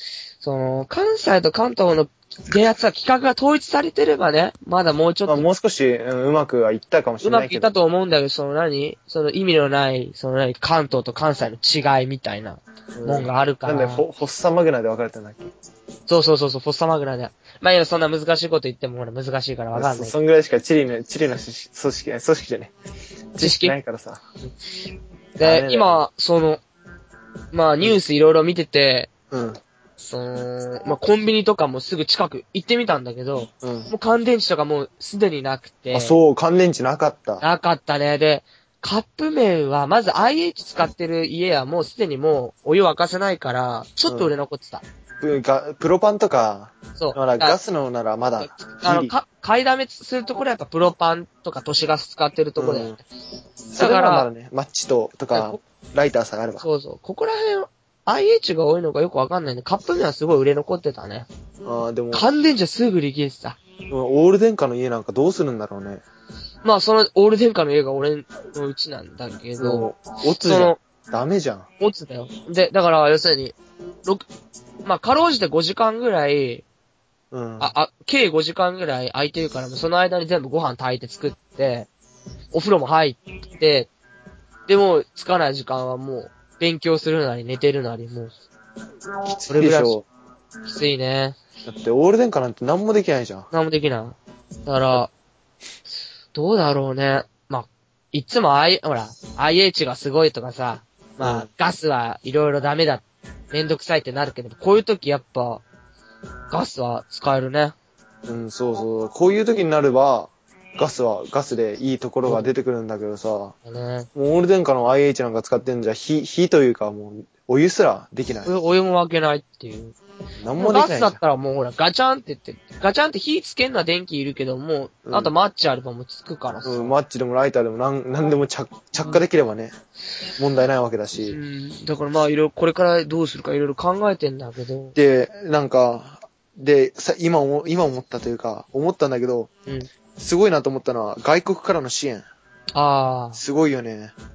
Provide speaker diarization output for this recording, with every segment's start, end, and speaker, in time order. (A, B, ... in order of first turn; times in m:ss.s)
0:00.4-0:05.4 A
0:05.3-0:07.7 B
0:07.2-0:14.0 A
0:12.9-0:15.5 B
0:16.1-0:20.1 A
0:19.7-0:22.8 B
0:23.4-0:24.2 B
0:23.4-0:23.8 A
0:25.4-0:26.0 B
0:25.4-0:26.6 A
0:27.5-0:29.1 A
0:29.3-0:29.6 B
0:30.0-0:36.2 A
0:33.6-0:33.9 B
0:35.9-0:37.4 B
0:37.4-0:44.8 A
0:44.1-0:44.3 B
0:45.2-0:49.1 B
0:47.0-0:47.6 A
0:48.4-0:53.0 A
0:52.6-0:53.0 B
0:53.7-0:56.6 B
0:53.8-0:54.3 A
0:55.3-0:55.6 A
0:56.6-1:01.3 A
1:01.6-1:02.3 B
1:02.1-1:03.6 A
1:03.9-1:06.0 B
1:06.6-1:09.9 A
1:09.6-1:11.7 B
1:10.4-1:10.8 A
1:11.8-1:14.2 A
1:14.8-1:16.6 A
1:17.3-1:17.7 B
1:17.6-1:21.9 A
1:22.5-1:23.9 A
1:24.7-1:28.3 A
1:29.4-1:30.0 B
1:29.5-1:30.0 A
1:30.6-1:31.4 A
1:31.6-1:33.5 B
1:33.5-1:35.1 A
1:36.3-1:45.6 A
1:41.2-1:41.5 B
1:46.5-1:47.8 A
1:48.2-1:53.6 B
1:52.2-1:52.5 A
1:53.6-1:54.1 A
1:54.1-1:58.5 B
1:58.4-2:00.0 A
2:00.4-2:01.2 B
2:00.6-2:07.0 A
2:05.0-2:05.3 B
2:06.6-2:09.7 B
2:10.4-2:11.4 B
2:11.2-2:14.9 A
2:14.9-2:19.5 B
2:20.2-2:22.2 B
2:22.7-2:23.4 A
2:23.4-2:24.1 B